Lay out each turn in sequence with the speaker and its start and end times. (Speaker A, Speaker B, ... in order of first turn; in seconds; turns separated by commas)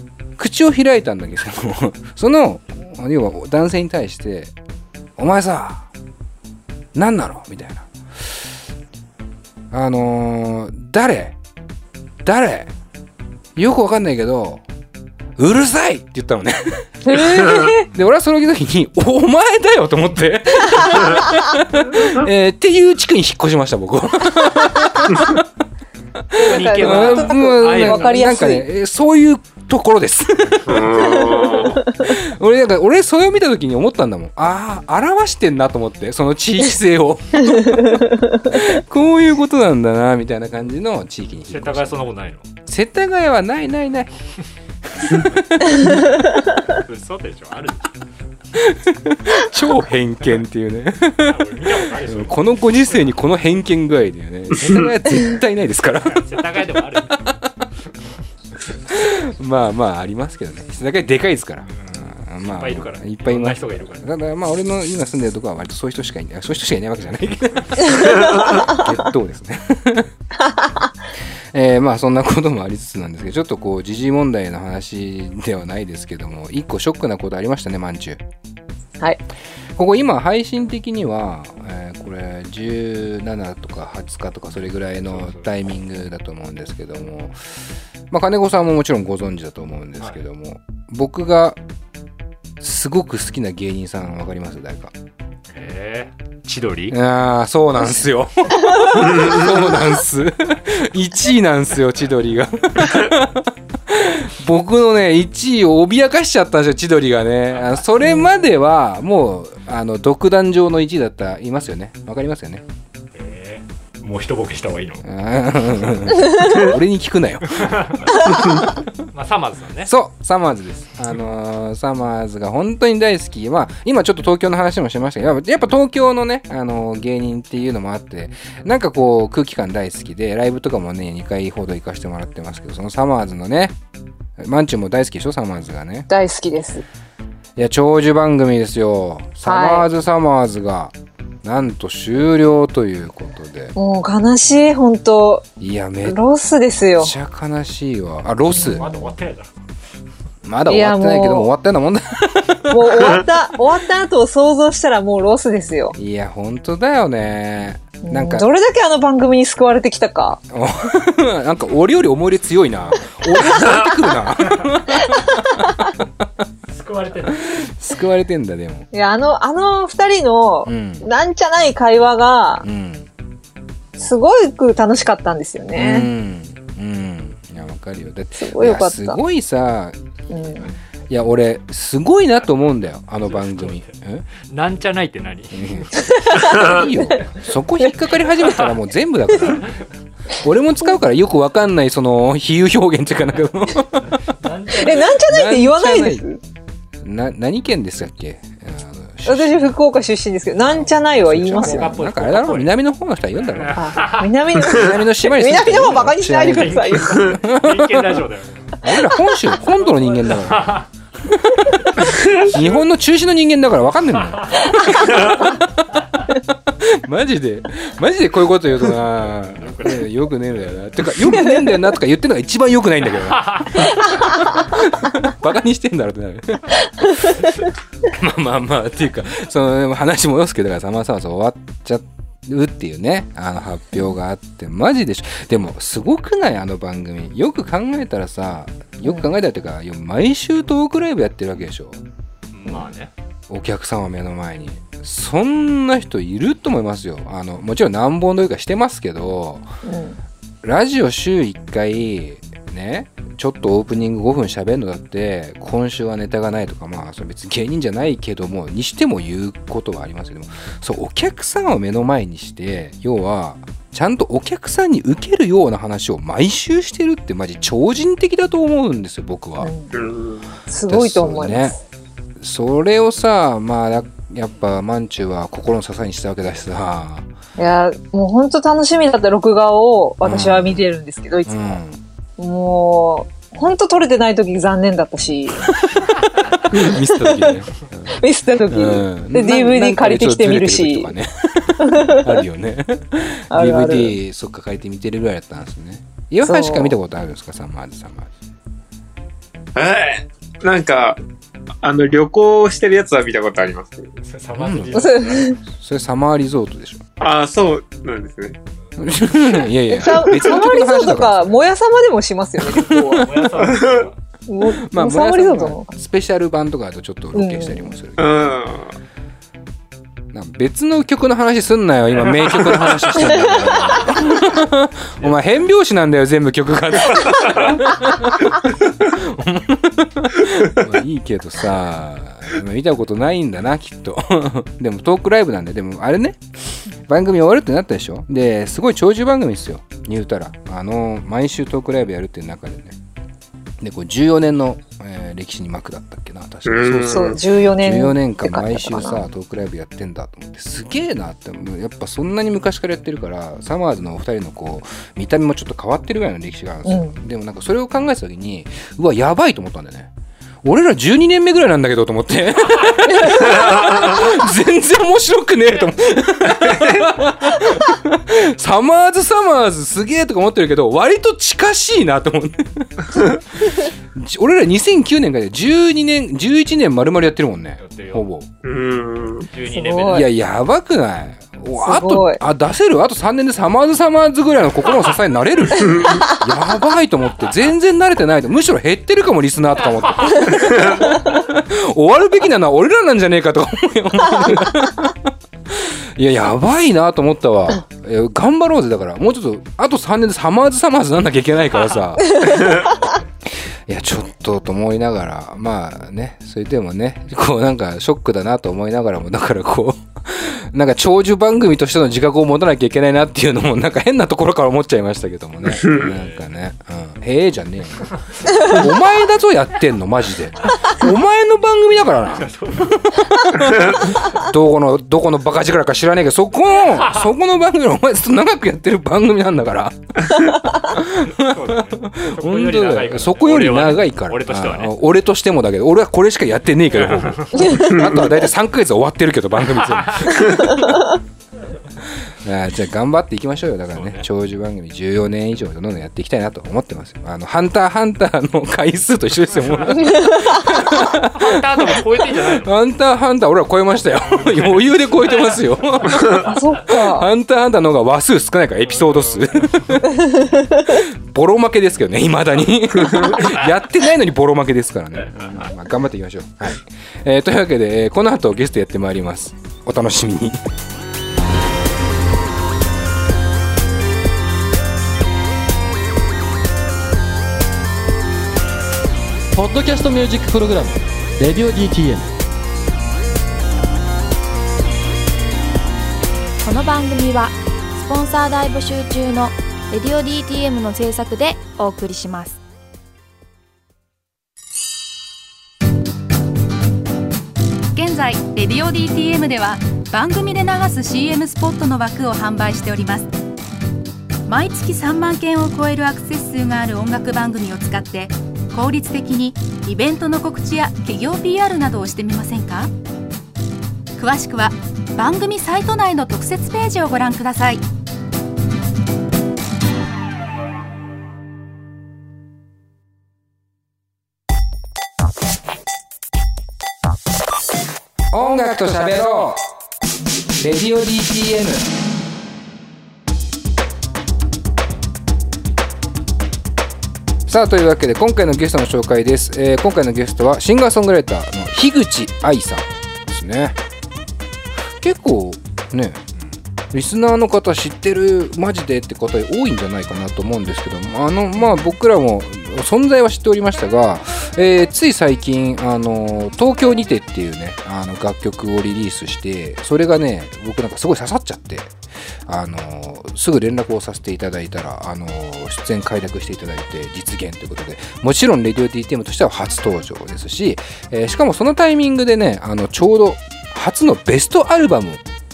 Speaker A: 0.4-4.5, Speaker A: 5.2-5.9, Speaker A: 6.9-7.8, Speaker A: 9.7-11.4, Speaker A: 12.2-12.7, Speaker A: 13.6-14.6, Speaker A: 15.4-25.4, Speaker B: 17.0-17.9, Speaker A: 26.2-31.2, Speaker B: 26.4-28.7, Speaker C: 26.4-28.2, Speaker D: 30.6-31.8, Speaker B: 31.0-31.8, Speaker A: 31.9-41.9, Speaker C: 41.5-42.5, Speaker A: 42.7-44.1, Speaker A: 44.9-46.2, Speaker C: 46.7-47.9, Speaker A: 48.5-51.5, Speaker C: 51.2-53.2, Speaker A: 52.0-56.5, Speaker C: 56.0-57.2, Speaker A: 57.2-57.6, Speaker A: 58.7-70.1, Speaker C: 61.7-64.0, Speaker A: 71.5-78.2, Speaker A: 79.8-87.4, Speaker C: 85.0-85.4, Speaker A: 88.1-91.6, Speaker A: 92.6-94.9, Speaker C: 95.5-97.0, Speaker A: 96.9-112.6, Speaker C: 113.1-115.0, Speaker A: 115.0-118.8, Speaker C: 117.6-118.2, Speaker C: 119.1-119.9, Speaker A: 119.8-133.8, Speaker A: 134.4-136.1, Speaker B: 136.1-136.8, Speaker A: 137.6-143.7, Speaker B: 139.4-139.9, Speaker B: 143.8-145.4, Speaker A: 145.6-146.2, Speaker B: 146.0-147.1, Speaker A: 146.9-148.9, Speaker B: 148.6-148.8, Speaker C: 148.7-149.5, Speaker A: 150.4-153.3, Speaker B: 150.7-151.5, Speaker B: 152.7-155.9, Speaker A: 155.9-158.5, Speaker B: 158.0-160.4, Speaker A: 160.5-166.1, Speaker C: 166.7-167.4, Speaker A: 167.3-168.9, Speaker B: 168.9-172.6, Speaker A: 170.6-171.1, Speaker A: 172.6-173.1, Speaker B: 174.0-176.1, Speaker A: 175.7-180.0, Speaker B: 178.4-179.2, Speaker B: 180.3-180.7, Speaker A: 181.1-184.2, Speaker C: 183.3-183.8, Speaker C: 184.4-185.7, Speaker A: 185.5-189.7, Speaker B: 186.1-187.1, Speaker A: 190.4-194.3, Speaker C: 194.0-195.0, Speaker B: 194.7-196.4, Speaker A: 194.8-196.2, Speaker A: 197.0-199.7, Speaker B: 199.2-201.9, Speaker A: 200.6-208.2, Speaker C: 201.5-202.7, Speaker C: 203.7-204.3, Speaker B: 203.7-207.3, Speaker C: 206.4-208.8, Speaker A: 208.8-210.8, Speaker C: 209.8-210.9, Speaker A: 211.4-227.5, Speaker C: 212.2-212.6, Speaker C: 214.6-215.2, Speaker C: 218.9-220.1, Speaker C: 223.2-223.9, Speaker A: 228.1-242.0, Speaker B: 239.0-239.3, Speaker C: 242.5-243.1, Speaker A: 243.5-249.7, Speaker B: 249.8-250.2, Speaker A: 250.6-269.7, Speaker B: 269.6-269.9, Speaker D: 269.9-270.5, Speaker B: 270.7-271.8, Speaker A: 270.9-271.8, Speaker A: 272.4-277.3, Speaker B: 277.6-281.8, Speaker A: 280.2-280.8, Speaker A: 281.5-282.0, Speaker B: 282.4-285.7, Speaker A: 286.7-298.3, Speaker B: 286.7-291.1, Speaker B: 291.8-292.3, Speaker B: 293.5-294.1, Speaker B: 296.4-297.0, Speaker D: 299.8-301.2, Speaker D: 301.8-304.1, Speaker C: 304.2-305.5, Speaker A: 304.5-307.0, Speaker B: 304.9-305.6, Speaker D: 307.2-308.6, Speaker A: 309.0-311.5, Speaker B: 309.9-313.2, Speaker C: 312.8-314.1, Speaker A: 312.8-313.6, Speaker D: 313.6-314.1, Speaker B: 314.5-315.9, Speaker A: 314.6-318.5, Speaker B: 317.3-317.9, Speaker D: 318.2-318.9, Speaker A: 320.3-343.0, Speaker C: 322.6-324.0, Speaker A: 343.8-360.1, Speaker D: 346.6-347.4, Speaker B: 347.1-349.2, Speaker B: 356.8-357.1, Speaker A: 360.6-378.5, Speaker C: 377.8-378.3, Speaker D: 378.6-379.5, Speaker C: 379.5-380.3, Speaker B: 379.7-380.3, Speaker A: 380.1-403.0, Speaker B: 381.8-382.4, Speaker D: 385.7-386.3, Speaker C: 390.2-390.5, Speaker A: 403.9-441.2, Speaker C: 415.9-416.5, Speaker C: 422.3-423.2, Speaker C: 426.9-427.3, Speaker C: 431.3-434.9, Speaker C: 437.0-437.7, Speaker A: 442.0-470.6, Speaker C: 443.9-444.2, Speaker C: 450.7-452.7, Speaker C: 454.5-455.6, Speaker B: 456.3-457.3, Speaker E: 479.5-482.3, Speaker F: 486.6-492.6, Speaker G: 497.9-503.3, Speaker G: 504.5-512.9, Speaker G: 514.2-517.8, Speaker A: 528.3-529.6, Speaker A: 530.6-531.9, Speaker A: 537.5-543.8, Speaker A: 545.0-546.2, Speaker A: 546.9-561.9, Speaker A: 562.5-575.2